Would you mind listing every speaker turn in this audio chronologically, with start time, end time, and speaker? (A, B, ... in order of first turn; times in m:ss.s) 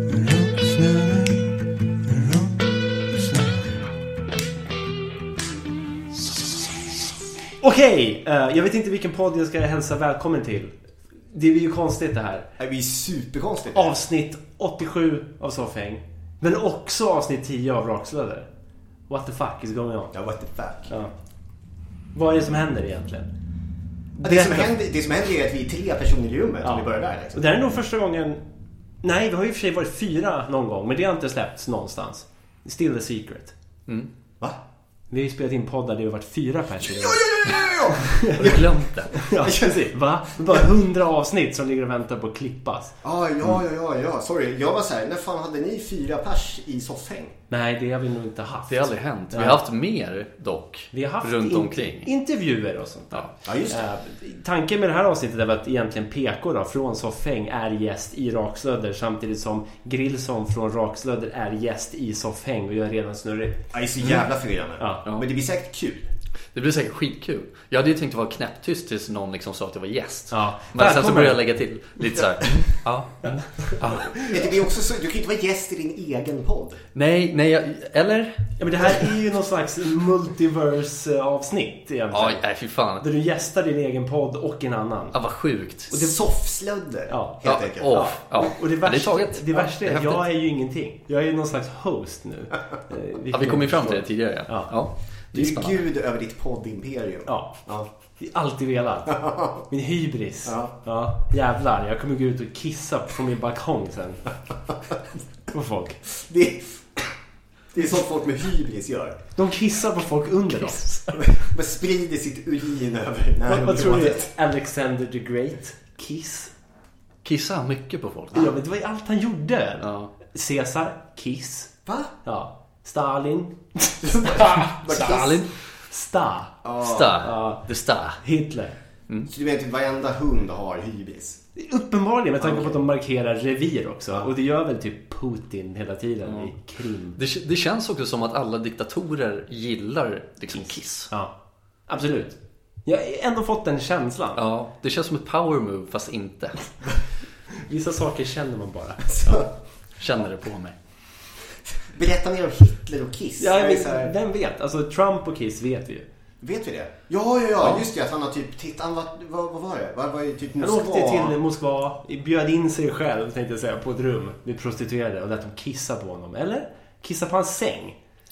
0:00.3-0:01.4 A
0:07.6-0:10.8 A
0:11.3-0:12.5 A
0:12.6-0:14.0 B
0:13.7-0:18.5 A
0:19.1-0:20.2 A
0:20.1-0:20.9 B
0:22.1-0:23.3 A
0:24.2-0:24.8 A
0:24.2-0:27.5 B
0:26.6-0:28.4 A
0:29.0-0:33.5 A
0:35.1-0:37.2 A
0:36.8-0:38.7 B
0:37.9-0:38.6 A
0:38.2-0:39.2 C
0:39.1-0:43.0 A
0:43.0-0:47.4 B
0:47.5-0:49.6 A
0:48.7-0:52.1 C
0:50.9-1:03.6 A
0:53.4-0:53.8 B
1:03.7-1:06.1 B
1:06.5-1:14.1 C
1:10.3-1:11.4 A
1:13.2-1:14.5 A
1:14.2-1:16.8 B
1:17.0-1:19.0 C
1:18.6-1:22.4 A
1:22.1-1:23.0 C
1:23.0-1:25.2 A
1:25.1-1:25.9 C
1:25.9-1:28.0 B
1:27.1-1:34.7 A
1:27.4-1:30.2 C
1:33.3-1:35.8 C
1:35.3-1:37.9 B
1:37.3-1:37.6 A
1:38.2-1:44.3 A
1:39.1-1:39.6 B
1:40.5-1:40.7 B
1:45.5-1:46.0 A
1:46.1-1:47.1 B
1:47.7-1:49.2 B
1:49.4-1:51.3 A
1:51.2-1:54.3 B
1:53.4-1:56.5 A
1:57.2-1:58.5 C
1:58.3-2:01.7 A
1:59.8-2:00.1 C
2:01.9-2:02.1 B
2:02.2-2:07.6 A
2:04.0-2:05.3 B
2:04.8-2:05.5 C
2:06.6-2:07.2 B
2:06.8-2:08.2 C
2:08.2-2:08.7 A
2:09.3-2:11.4 B
2:11.6-2:17.2 A
2:12.4-2:12.7 B
2:17.2-2:21.1 C
2:20.6-2:21.3 A
2:21.9-2:24.4 A
2:24.4-2:26.7 C
2:27.5-2:29.5 A
2:29.1-2:29.5 B
2:30.0-2:30.8 C
2:31.8-2:34.1 B
2:33.4-2:36.1 A
2:36.4-2:41.4 B
2:40.6-2:48.0 A